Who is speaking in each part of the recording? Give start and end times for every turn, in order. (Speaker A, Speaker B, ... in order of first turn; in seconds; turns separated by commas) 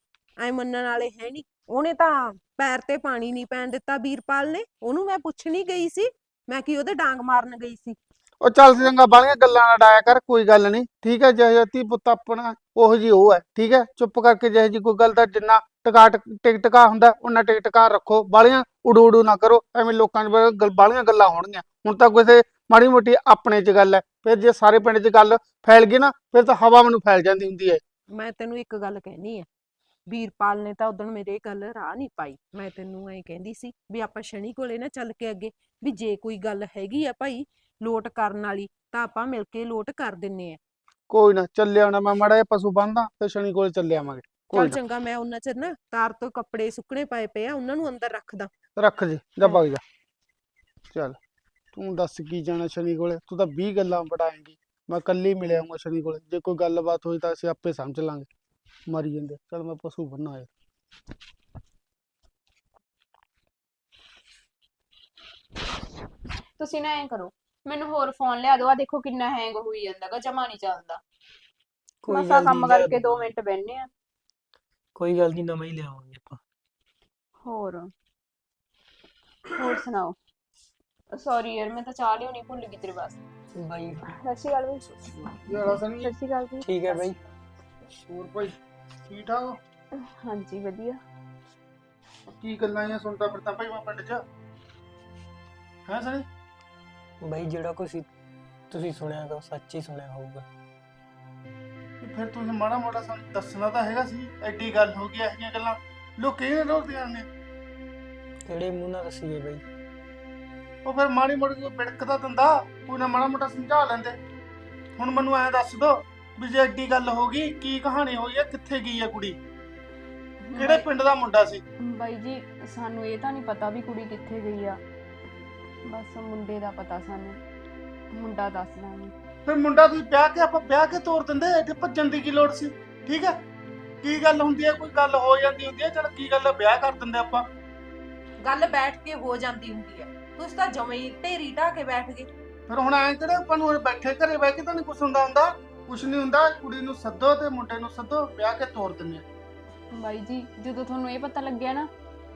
Speaker A: 0.4-8.0, Speaker B: 8.4-27.8, Speaker A: 28.1-29.5, Speaker A: 30.1-40.6, Speaker B: 41.1-44.8, Speaker A: 44.5-48.5, Speaker B: 48.8-49.8, Speaker B: 50.9-51.2, Speaker B: 51.7-58.3, Speaker B: 58.9-60.5, Speaker C: 66.6-71.0, Speaker D: 72.0-73.3, Speaker C: 72.1-73.9, Speaker D: 75.0-76.4, Speaker C: 77.4-77.9, Speaker C: 79.5-80.2, Speaker C: 81.1-83.2, Speaker D: 83.6-84.2, Speaker C: 84.1-87.2, Speaker B: 85.3-86.1, Speaker D: 86.6-87.2, Speaker B: 88.0-89.6, Speaker C: 90.0-91.0, Speaker B: 92.4-94.2, Speaker B: 95.9-96.3, Speaker D: 97.2-98.1, Speaker D: 98.7-100.5, Speaker B: 102.0-107.3, Speaker D: 108.5-109.6, Speaker B: 110.8-114.2, Speaker B: 115.0-119.4, Speaker C: 120.5-120.8, Speaker B: 120.6-121.6, Speaker C: 121.8-124.8, Speaker C: 125.9-127.4, Speaker C: 128.1-129.1, Speaker B: 129.5-133.4, Speaker B: 134.0-137.4, Speaker A: 138.4-142.3, Speaker B: 142.7-149.2, Speaker C: 149.9-151.9